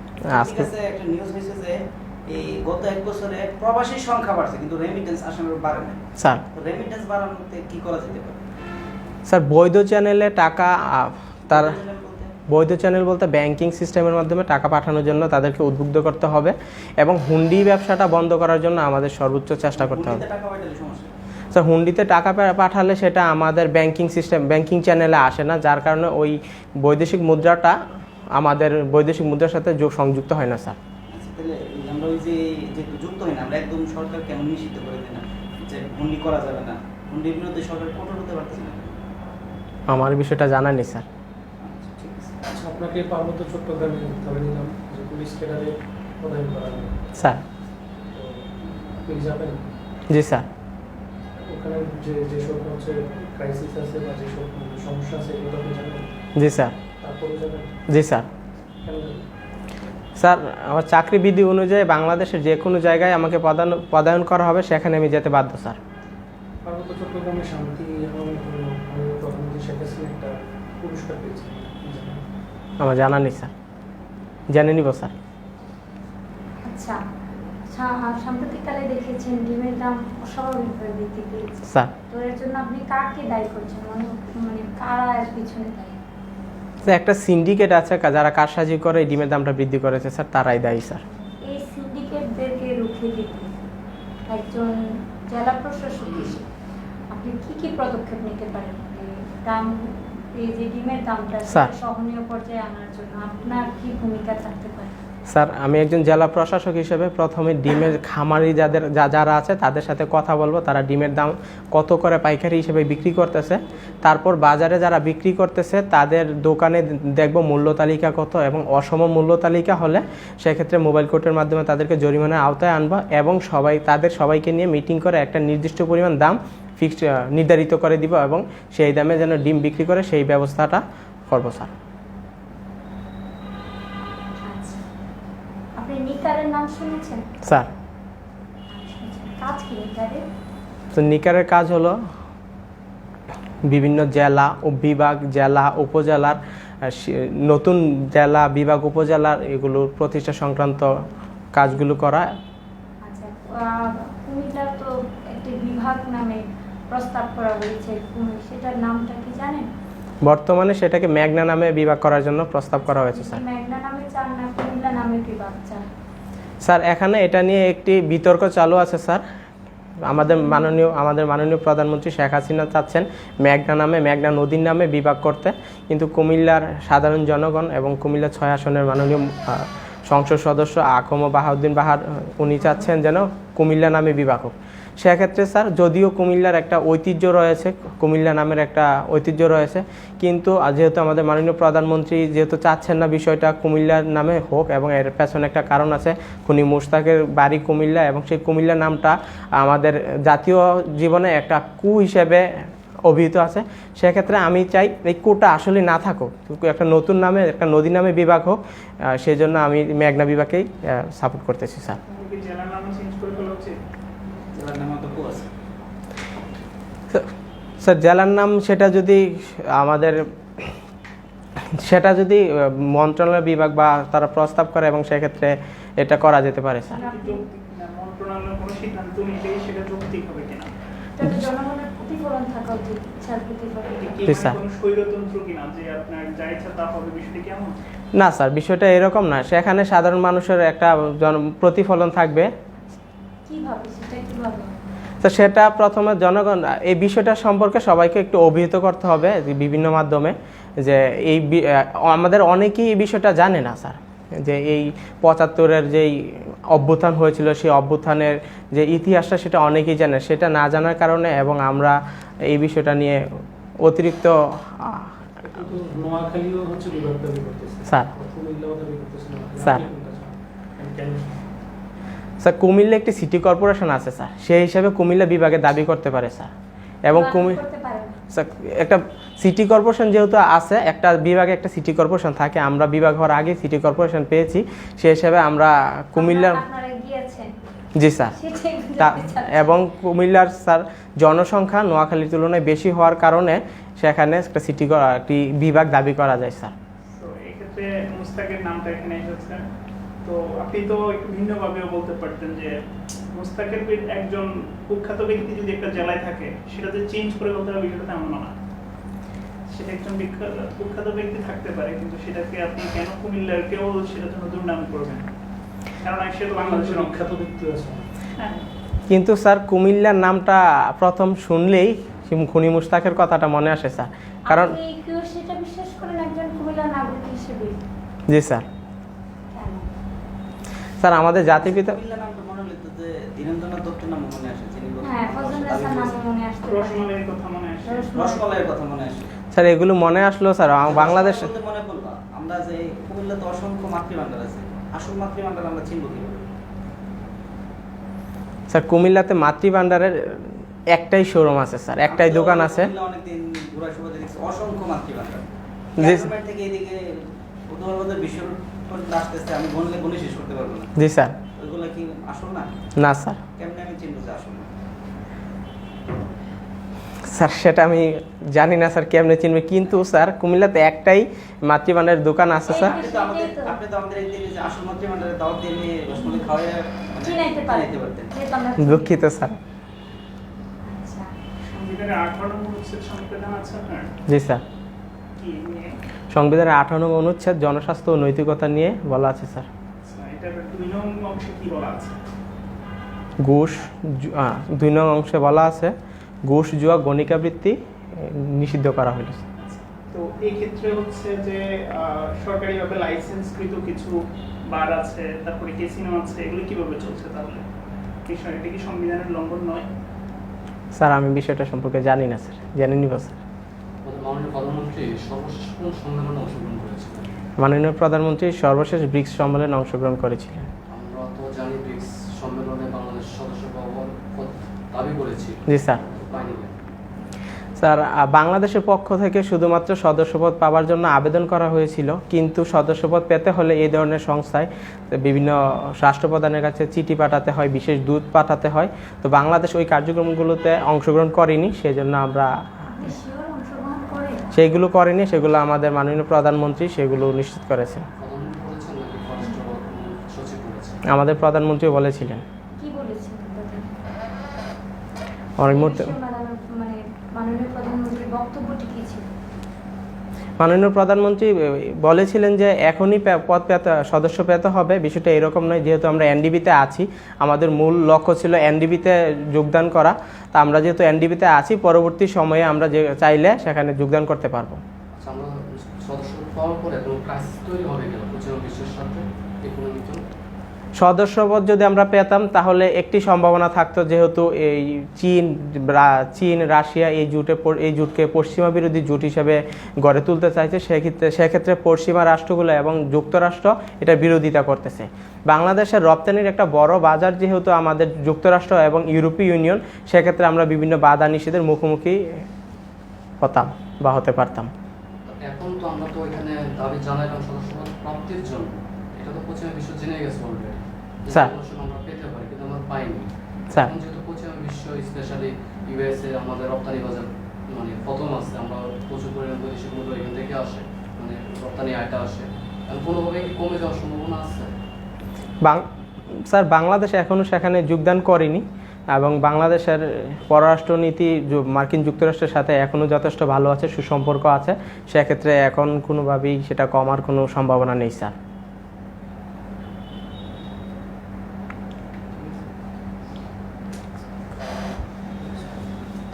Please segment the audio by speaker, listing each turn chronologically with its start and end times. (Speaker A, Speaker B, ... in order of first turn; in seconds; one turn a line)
Speaker A: 0.3-0.7
Speaker B: 0.3-8.4
Speaker A: 6.2-6.4
Speaker A: 9.3-11.8
Speaker B: 11.5-12.3
Speaker A: 12.5-20.2
Speaker B: 19.8-21.1
Speaker A: 21.5-27.8
Speaker A: 28.4-30.8
Speaker B: 31.1-39.0
Speaker A: 39.9-41.0
Speaker B: 41.6-42.5
Speaker C: 42.5-47.0
Speaker A: 47.2-47.4
Speaker C: 48.1-48.5
Speaker C: 49.0-49.7
Speaker A: 50.1-50.5
Speaker C: 51.4-56.1
Speaker A: 56.4-56.8
Speaker C: 57.0-57.8
Speaker A: 57.9-58.3
Speaker C: 58.8-59.3
Speaker A: 60.2-65.8
Speaker C: 66.7-72.2
Speaker A: 72.8-73.5
Speaker A: 74.5-75.2
Speaker D: 76.6-77.0
Speaker D: 77.7-86.0
Speaker A: 86.9-91.0
Speaker D: 91.5-93.5
Speaker D: 94.3-94.8
Speaker D: 95.3-96.5
Speaker E: 96.1-96.4
Speaker D: 97.1-105.0
Speaker A: 105.3-131.7
Speaker D: 134.4-134.8
Speaker D: 135.8-137.3
Speaker A: 137.4-137.7
Speaker D: 138.7-140.2
Speaker A: 140.9-142.0
Speaker A: 143.7-152.3
Speaker D: 153.0-159.7
Speaker A: 160.2-163.4
Speaker D: 162.8-165.9
Speaker A: 166.6-169.2
Speaker A: 170.0-202.5
Speaker D: 170.1-170.7
Speaker A: 203.1-212.0
Speaker F: 212.1-213.8
Speaker B: 214.6-215.5
Speaker A: 217.1-220.8
Speaker A: 221.7-227.0
Speaker D: 226.9-227.4
Speaker F: 227.0-230.7
Speaker D: 231.2-234.2
Speaker F: 233.9-237.8
Speaker A: 234.2-234.6
Speaker A: 238.2-242.5
Speaker D: 243.5-244.7
Speaker A: 245.2-263.2
Speaker A: 263.8-265.1
Speaker C: 265.4-271.5
Speaker A: 272.4-276.5
Speaker A: 277.1-277.6
Speaker D: 277.1-278.1
Speaker A: 278.3-286.6
Speaker D: 286.2-287.5
Speaker A: 288.0-288.4
Speaker D: 288.3-289.8
Speaker A: 289.0-296.7
Speaker F: 297.1-299.7
Speaker F: 300.2-302.8
Speaker F: 303.3-308.5
Speaker F: 309.7-315.2
Speaker F: 316.0-317.2
Speaker C: 316.6-318.1
Speaker F: 318.4-318.7
Speaker A: 319.1-324.8
Speaker D: 324.5-327.8
Speaker A: 328.3-328.7
Speaker D: 329.5-329.9
Speaker A: 331.0-331.9
Speaker B: 331.5-336.2
Speaker D: 335.0-337.1
Speaker F: 336.6-338.1
Speaker D: 337.9-338.7
Speaker B: 338.1-339.3
Speaker A: 339.5-341.5
Speaker B: 340.8-346.5
Speaker A: 348.7-352.9
Speaker B: 352.1-355.5
Speaker A: 356.0-356.3
Speaker B: 356.0-360.9
Speaker A: 361.0-361.4
Speaker B: 361.6-362.7
Speaker A: 363.0-363.4
Speaker B: 363.6-364.7
Speaker A: 367.3-373.0
Speaker D: 372.7-373.8
Speaker B: 372.7-378.3
Speaker D: 376.2-376.6
Speaker D: 377.2-379.3
Speaker A: 378.8-379.6
Speaker D: 380.8-381.3
Speaker F: 381.6-384.1
Speaker A: 384.3-384.6
Speaker F: 385.4-386.0
Speaker A: 386.3-389.7
Speaker F: 390.0-392.2
Speaker A: 393.4-395.9
Speaker A: 396.5-399.4
Speaker F: 399.6-404.1
Speaker F: 404.7-407.6
Speaker F: 408.3-409.9
Speaker A: 410.9-413.4
Speaker E: 414.0-417.4
Speaker A: 417.6-420.7
Speaker E: 420.9-426.8
Speaker A: 425.7-426.0
Speaker A: 427.8-442.6
Speaker D: 442.9-444.5
Speaker A: 444.5-448.1
Speaker E: 448.2-451.0
Speaker A: 451.1-452.4
Speaker D: 452.8-453.9
Speaker A: 455.6-456.1
Speaker D: 455.7-459.3
Speaker A: 460.6-474.8
Speaker E: 475.1-480.2
Speaker A: 481.0-502.2
Speaker A: 503.4-504.7
Speaker E: 505.3-524.8
Speaker A: 526.5-538.3
Speaker B: 545.3-546.1